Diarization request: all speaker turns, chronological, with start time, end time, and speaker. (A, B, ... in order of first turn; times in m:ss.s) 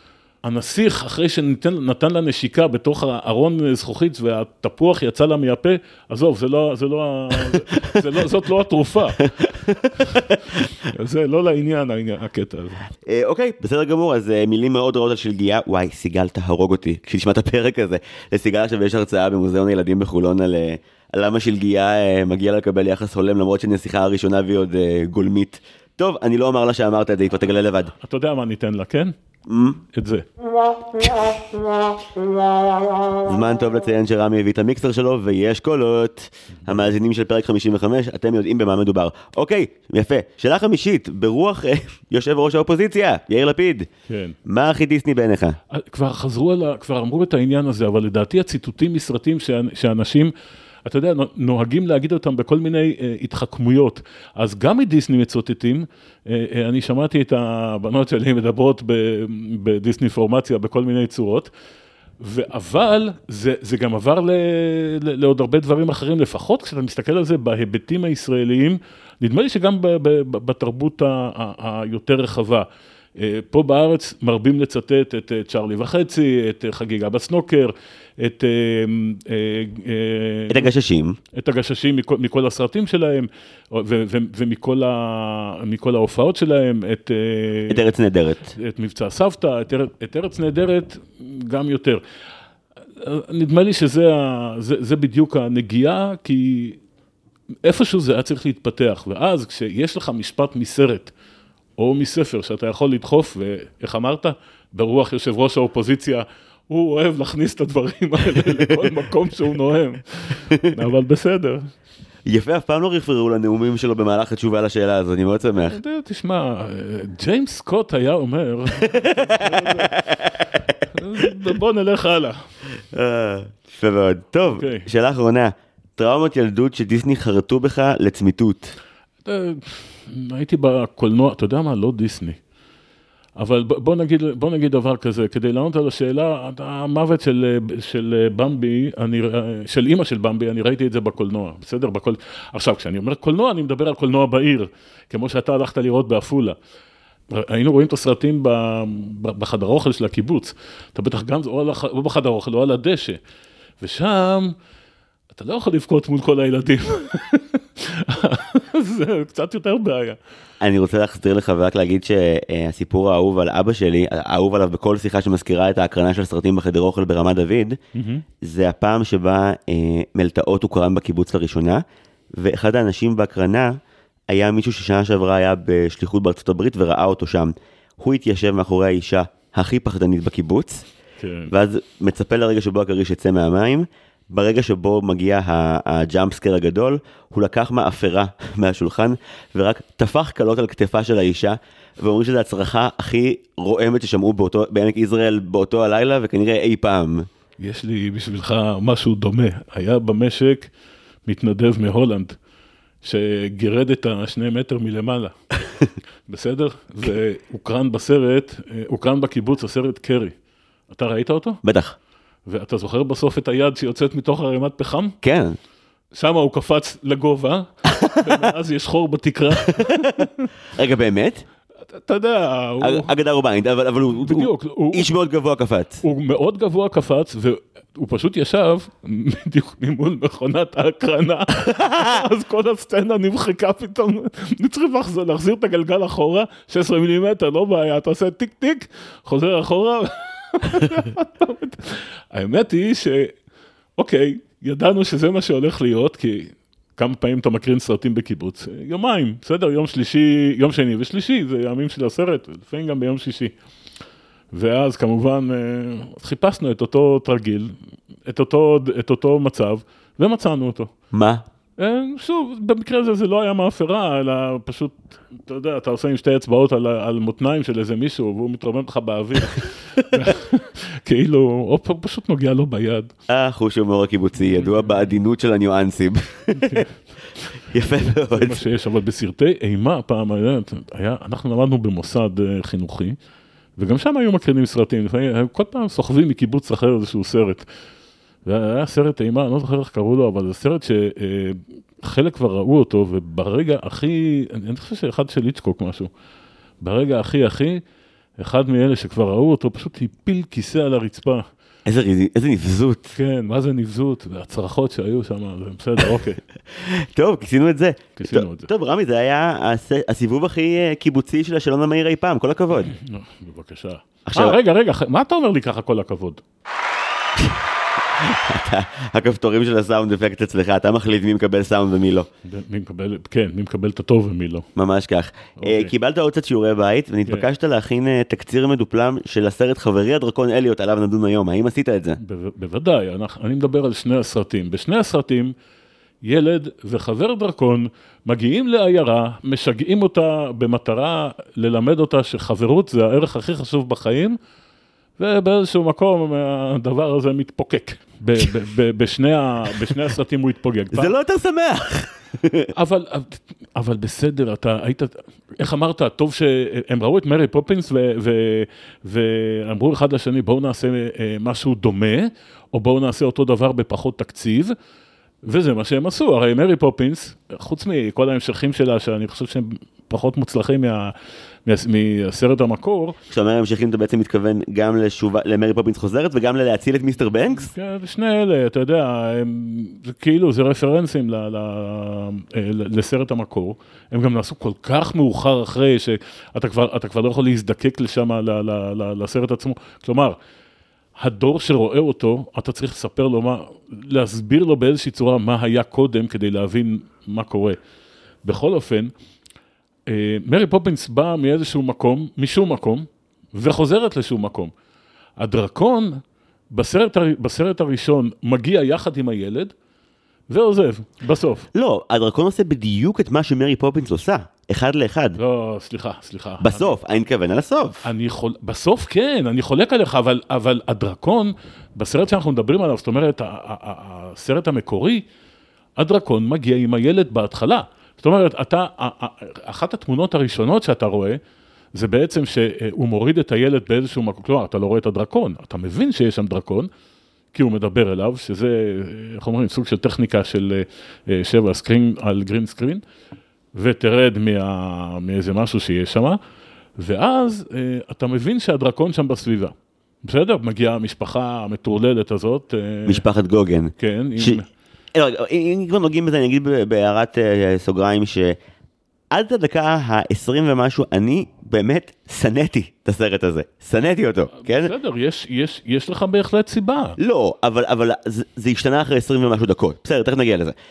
0:00.4-0:09.3 A
0:07.5-0:08.0 B
0:09.2-0:10.7 B
0:10.0-0:12.8 A
0:13.0-0:27.9 B
0:28.0-0:29.1 A
0:29.5-0:29.8 B
0:29.9-0:30.2 A
0:31.0-0:31.5 B
0:33.2-0:43.9 B
0:44.1-0:44.4 A
0:44.4-0:45.6 B
0:45.7-0:50.3 A
0:50.8-1:01.5 A
1:02.2-1:12.6 A
1:13.2-1:20.7 A
1:20.5-1:21.2 B
1:21.3-1:27.9 A
1:27.7-1:28.5 B
1:28.5-1:32.0 A
1:33.0-1:36.8 A
1:37.6-1:41.1 A
1:41.8-1:51.7 A
1:48.4-1:48.9 B
1:52.2-1:55.8 B
1:55.6-1:59.9 A
1:58.8-2:00.7 B
2:00.8-2:02.4 A
2:02.8-2:08.7 B
2:04.5-2:04.9 A
2:09.2-2:12.4 A
2:13.4-2:26.6 A
2:27.3-2:33.2 A
2:33.8-2:34.5 A
2:35.3-2:40.2 A
2:40.6-2:47.8 B
2:47.9-2:48.2 A
2:48.4-2:51.8 B
2:52.3-2:53.7 B
2:54.3-3:00.9 B
3:01.2-3:01.5 A
3:01.5-3:17.3 B
3:17.6-3:20.7 A
3:21.2-3:22.4 A
3:23.0-3:25.3 A
3:26.3-3:30.3 A
3:30.9-3:31.6 A
3:31.6-3:32.0 B
3:32.5-3:35.2 A
3:35.2-3:35.6 B
3:36.1-3:40.5 A
3:39.7-3:40.2 B
3:40.7-3:41.4 B
3:41.9-3:43.1 A
3:42.8-3:46.0 B
3:44.2-3:45.1 A
3:46.0-4:03.4 A
3:51.7-3:52.2 B
4:04.0-4:13.5 A
4:14.5-4:17.7 A
4:18.2-4:20.9 A
4:21.1-4:21.4 B
4:21.8-4:33.1 A
4:33.3-4:36.9 B
4:34.4-4:35.0 A
4:36.5-4:36.9 A
4:37.7-4:38.6 B
4:38.3-4:43.2 A
4:43.8-4:47.6 A
4:48.4-4:56.1 A
4:56.8-4:57.8 A
4:58.4-5:01.4 A
5:01.8-5:03.1 B
5:03.2-5:06.4 A
5:06.7-5:12.9 B
5:08.2-5:08.7 A
5:12.8-5:16.4 A
5:14.3-5:14.6 B
5:17.4-5:17.6 B
5:18.1-5:22.3 B
5:22.4-5:24.7 A
5:24.8-5:32.2 B
5:25.6-5:25.9 A
5:32.2-5:35.5 A
5:36.2-5:44.4 A
5:45.2-5:51.1 A
5:50.9-5:52.7 B
5:52.7-6:04.7 A
6:05.4-6:11.1 A
6:11.6-6:13.2 A
6:13.3-6:17.7 B
6:17.6-6:30.4 A
6:31.2-6:37.8 A
6:38.4-6:39.1 A
6:40.1-6:44.7 A
6:45.4-6:46.2 A
6:46.7-6:49.7 A
6:50.5-6:51.7 A
6:51.7-6:55.4 B
6:55.4-6:57.0 A
6:56.6-6:58.0 B
6:58.0-7:05.2 A
7:06.0-7:11.4 A
7:11.9-7:16.9 A
7:17.5-7:23.0 A
7:23.7-7:26.4 A
7:27.0-7:33.2 A
7:33.1-7:34.6 B
7:34.0-7:34.6 A
7:35.1-7:38.6 B
7:39.3-7:44.9 B
7:44.5-7:47.2 A
7:47.2-7:50.7 B